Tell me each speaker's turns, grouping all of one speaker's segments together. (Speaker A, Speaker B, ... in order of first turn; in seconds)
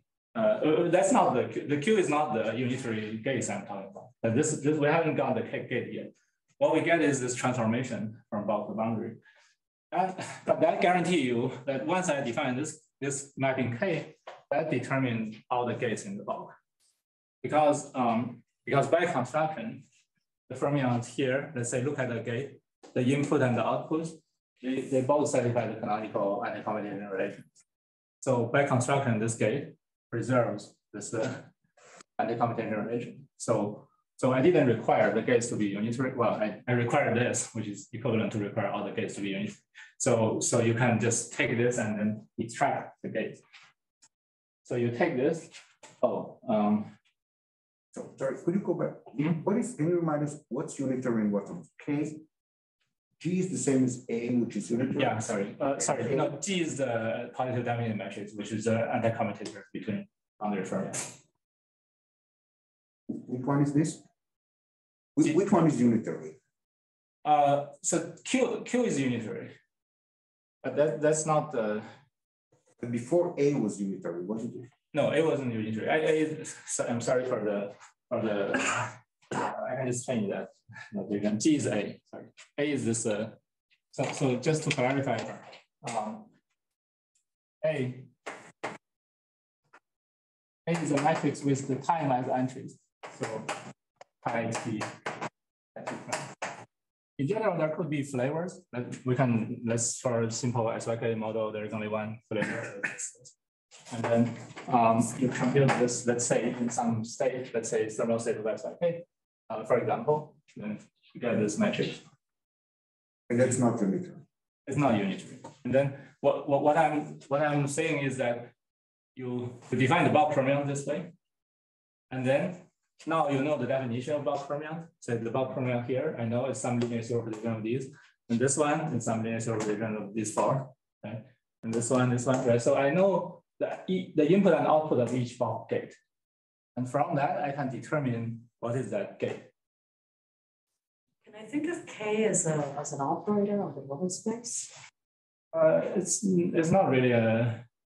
Speaker A: 0.3-9.2, 9.9-16.6, 17.4-19.8, 20.5-27.5, 28.2-31.5, 32.2-43.4, 44.6-46.9, 55.0-61.2, 67.2-69.5, 70.6-71.9, 74.9-83.4, 83.9-86.3, 87.6-88.1, 90.7-93.6, 94.2-95.0, 95.8-96.4, 97.2-103.3, 103.9-112.0, 114.7-118.5, 119.2-121.1, 122.1-136.0, 136.8-139.5, 145.5-147.6
Speaker B: 48.0-52.2, 53.2-55.2, 55.8-56.4, 63.1-64.0, 65.2-66.4, 72.8-74.7, 113.3-114.2
Speaker C: 141.2-144.8